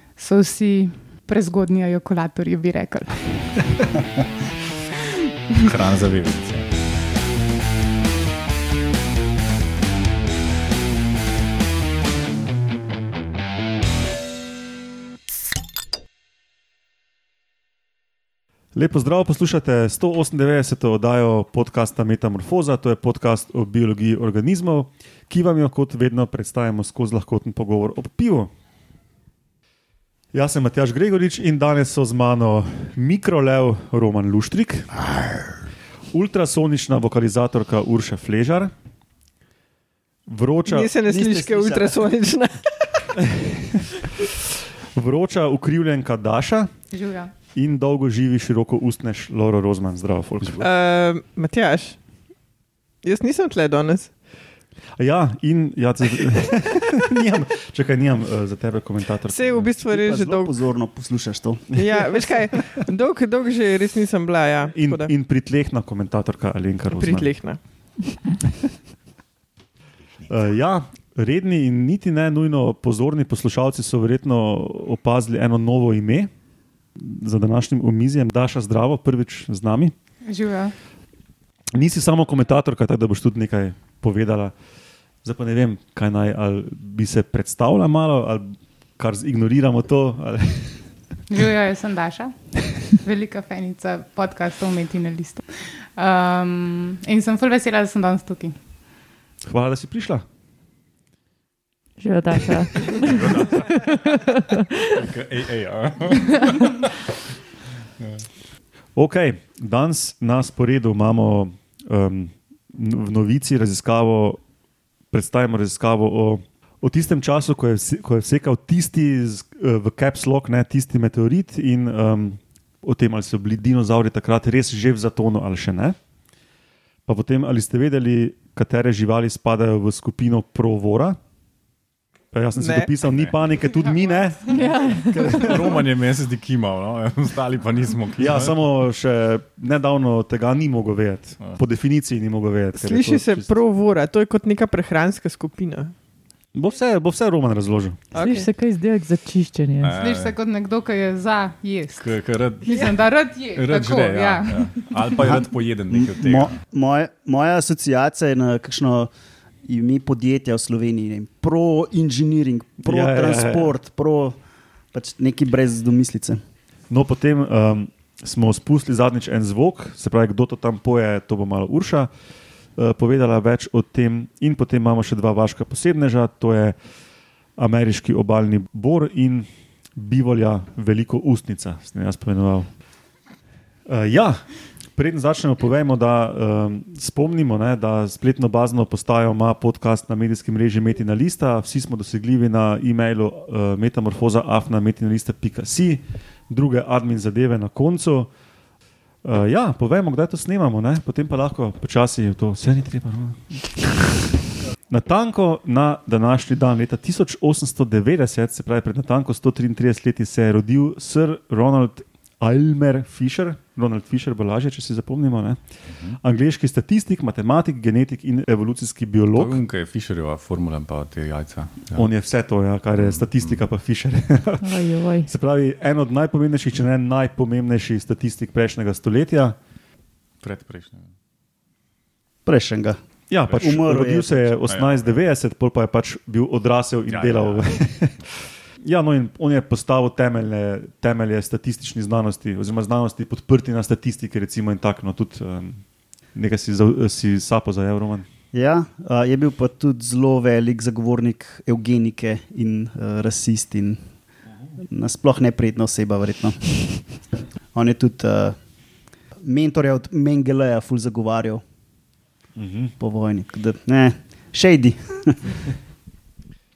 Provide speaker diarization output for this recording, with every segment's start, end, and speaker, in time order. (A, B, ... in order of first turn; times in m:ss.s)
0:00.2-0:03.6 A
0:05.6-0:06.8 B
0:18.8-0:28.5 C
0:30.3-0:35.1 C
0:36.1-0:38.7 C
0:40.3-0:40.9 C
0:40.7-0:43.0 D
0:41.0-0:42.0 E
0:43.2-0:44.4 C
0:45.0-0:46.7 C
0:46.9-0:47.3 A
0:47.5-0:50.7 C
0:50.6-0:52.0 D
0:53.0-0:54.1 D
0:55.0-0:59.7 C
0:59.3-1:00.5 D
0:59.9-1:01.7 E
1:01.8-1:02.7 C
1:01.8-1:05.1 D
1:04.7-1:07.3 C
1:06.9-1:07.6 D
1:10.3-1:16.3 C
1:17.0-1:19.9 C
1:20.3-1:20.7 A
1:21.7-1:24.5 C
1:25.2-1:30.8 C
1:31.3-1:38.6 A
1:39.5-1:40.2 C
1:42.0-1:44.9 F
1:42.9-1:44.2 B
1:45.0-1:46.8 B
1:48.0-1:48.3 B
1:49.0-1:54.4 C
1:55.1-2:06.0 C
2:07.1-2:11.2 C
2:12.3-2:15.8 C
2:12.6-2:12.9 D
2:14.5-2:15.8 D
2:14.5-2:15.3 F
2:15.3-2:18.6 B
2:18.2-2:23.6 C
2:22.8-2:25.9 D
2:26.5-2:28.0 C
2:28.2-2:28.5 D
2:28.2-2:30.0 F
2:29.8-2:30.4 B
2:30.0-2:35.1 A
2:32.0-2:36.6 B
2:35.2-2:39.1 E
2:39.7-2:44.4 E
2:42.8-2:43.7 C
2:44.9-2:46.4 E
2:46.9-2:52.1 C
2:52.8-2:56.8 C
2:57.6-3:02.7 C
3:03.9-3:18.3 C
3:19.2-3:24.3 C
3:24.9-3:39.6 C
3:35.9-3:36.2 B
3:39.3-3:42.1 B
3:41.9-3:49.6 C
3:43.0-3:43.6 B
3:44.6-3:45.3 F
3:50.4-3:51.1 B
3:52.4-3:53.0 E
3:53.3-4:05.8 C
3:53.6-3:54.5 E
3:54.7-3:55.2 B
3:57.1-3:57.8 B
4:06.3-4:08.3 C
4:08.5-4:14.0 E
4:14.9-4:17.1 E
4:17.7-4:18.6 E
4:19.4-4:21.6 E
4:22.6-4:22.9 C
4:23.0-4:25.6 E